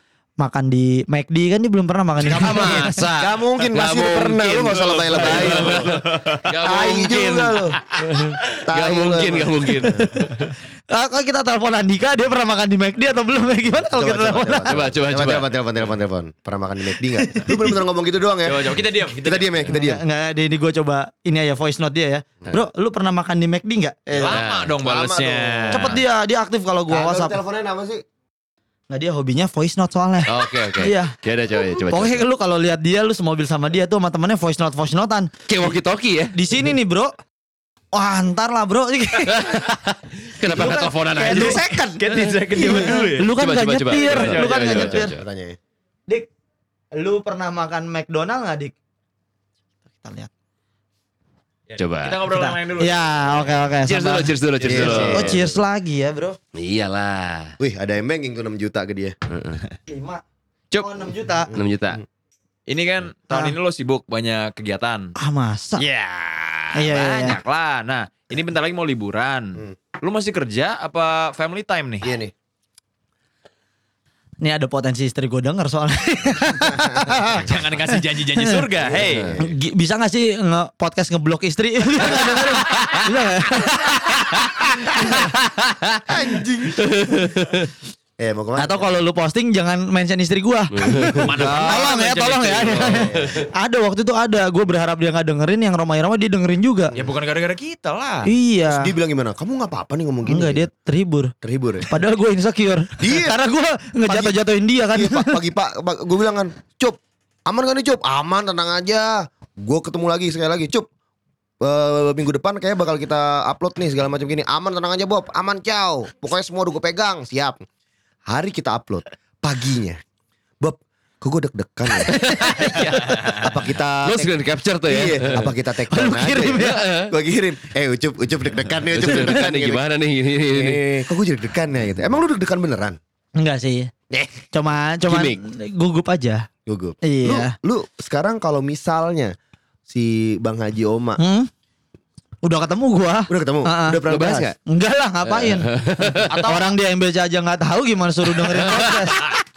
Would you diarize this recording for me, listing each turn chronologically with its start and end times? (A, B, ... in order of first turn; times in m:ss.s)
0:00.4-0:03.0 A
0:02.2-0:10.5 B
0:02.3-0:07.8 C
0:05.4-0:06.3 D
0:08.7-0:10.1 C
0:10.9-0:14.7 A
0:13.9-0:20.0 C
0:14.6-0:15.5 B
0:17.3-0:17.7 A
0:18.4-0:19.7 D
0:19.7-0:24.0 A
0:24.1-0:26.0 C
0:24.2-0:26.0 D
0:24.3-0:24.7 B
0:25.7-0:27.4 A
0:26.9-0:28.0 C
0:28.9-0:31.1 A
0:30.3-0:32.2 B
0:31.9-0:35.3 A
0:35.5-0:36.3 B
0:36.3-0:37.2 A
0:37.9-0:39.5 A
0:39.2-0:42.3 B
0:40.5-0:41.6 A
0:41.2-0:43.0 C
0:41.3-0:43.3 D
0:42.6-0:45.1 A
0:43.3-0:45.2 B
0:43.9-0:44.8 D
0:44.2-0:45.6 C
0:47.0-0:48.7 A
0:50.0-0:50.3 A
0:51.7-0:53.5 D
0:51.8-0:52.2 B
0:52.3-0:56.4 A
0:53.8-0:55.5 B
0:54.6-0:55.4 C
0:54.7-0:55.0 D
0:56.6-0:57.6 B
0:57.6-0:59.2 C
0:59.3-0:59.6 B
0:59.9-1:00.2 A
1:00.8-1:01.5 A
1:01.5-1:02.0 B
1:02.7-1:05.1 D
1:05.2-1:05.8 A
1:05.8-1:12.1 D
1:06.8-1:07.4 A
1:12.0-1:12.3 C
1:14.4-1:17.5 A
1:16.7-1:17.1 C
1:17.3-1:19.4 D
1:18.4-1:18.6 A
1:18.8-1:19.5 C
1:19.4-1:25.3 A
1:26.1-1:26.8 C
1:26.8-1:27.7 B
1:28.2-1:29.0 C
1:28.6-1:36.9 A
1:30.7-1:31.3 B
1:31.0-1:33.1 D
1:31.5-1:31.9 C
1:32.8-1:33.4 C
1:37.0-1:38.3 D
1:38.2-1:38.9 A
1:38.7-1:40.7 C
1:40.3-1:41.3 A
1:41.4-1:41.9 C
1:41.9-1:45.4 A
1:43.0-1:43.4 C
1:44.0-1:44.4 C
1:44.9-1:50.9 C
1:51.6-1:57.6 C
1:58.3-2:00.0 C
2:00.6-2:02.2 C
2:02.0-2:03.2 B
2:02.8-2:03.5 D
2:03.3-2:09.9 C
2:04.1-2:05.5 B
2:05.9-2:06.8 A
2:06.6-2:07.1 B
2:08.9-2:10.8 B
2:09.0-2:09.3 A
2:10.4-2:13.0 C
2:13.4-2:13.9 A
2:14.1-2:14.4 C
2:14.5-2:16.5 A
2:15.1-2:15.4 B
2:16.7-2:19.4 C
2:17.0-2:17.6 A
2:19.9-2:21.2 C
2:21.2-2:21.5 A
2:22.4-2:24.1 A
2:23.3-2:24.5 C
2:24.1-2:24.6 B
2:24.7-2:29.3 A
2:25.2-2:26.3 B
2:26.2-2:26.7 D
2:28.5-2:29.1 B